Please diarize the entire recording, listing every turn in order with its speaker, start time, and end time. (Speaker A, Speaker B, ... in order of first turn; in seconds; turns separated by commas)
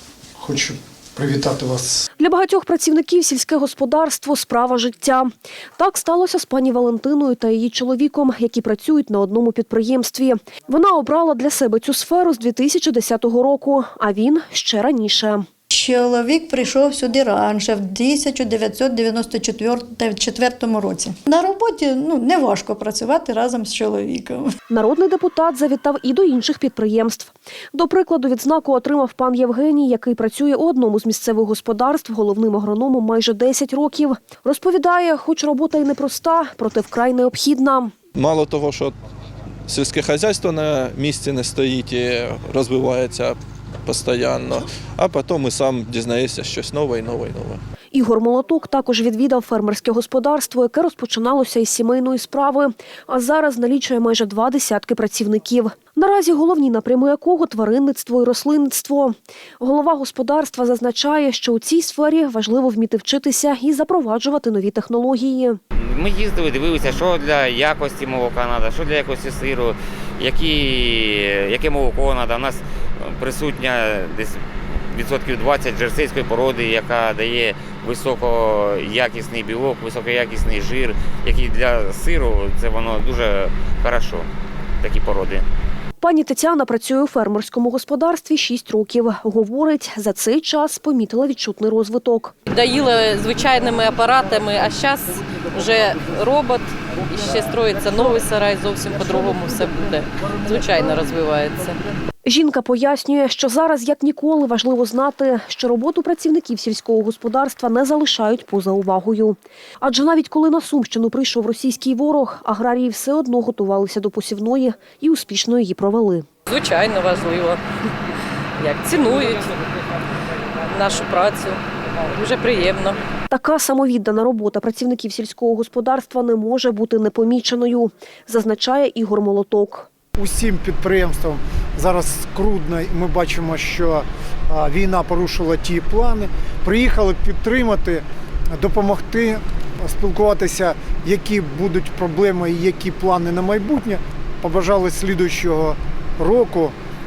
Speaker A: 0.4-2.0, Speaker B: 2.2-15.5, Speaker C: 15.7-24.5, Speaker B: 24.7-37.9, Speaker D: 38.1-38.9, Speaker D: 39.7-47.6, Speaker B: 47.9-65.6, Speaker E: 65.8-84.3, Speaker E: 84.8-85.5, Speaker B: 86.0-92.3, Speaker F: 92.5-101.8, Speaker B: 102.2-116.2, Speaker F: 116.5-117.6, Speaker F: 118.6-119.5, Speaker F: 120.7-123.0, Speaker B: 123.3-129.9, Speaker A: 130.2-146.7